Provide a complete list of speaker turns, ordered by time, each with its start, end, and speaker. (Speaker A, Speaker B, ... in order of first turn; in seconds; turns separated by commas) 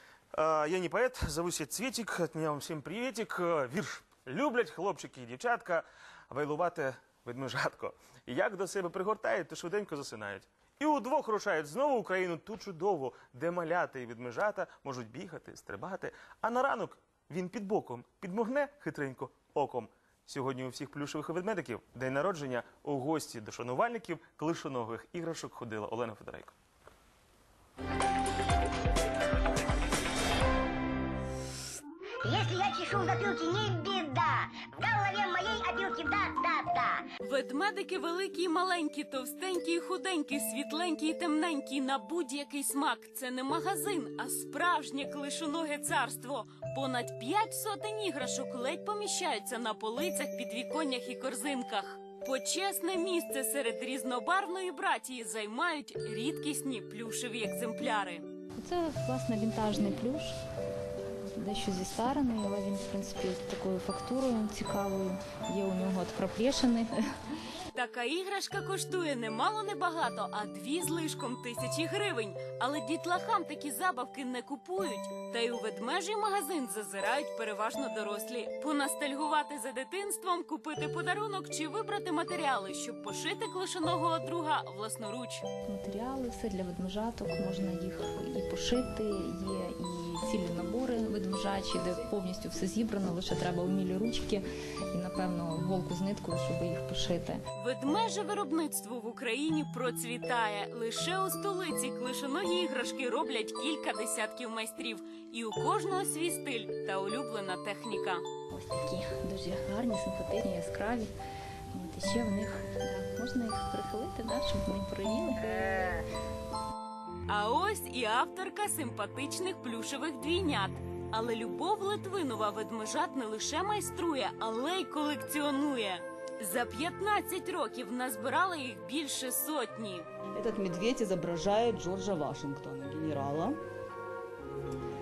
Speaker A: 0.3-26.5, Speaker B: 32.2-37.0, Speaker C: 37.2-58.2, Speaker D: 58.6-60.3, Speaker D: 61.4-66.9, Speaker C: 67.7-85.4, Speaker D: 85.7-97.4, Speaker C: 97.5-108.2, Speaker D: 108.5-111.1, Speaker D: 111.7-116.0, Speaker C: 117.3-130.1, Speaker E: 130.3-133.6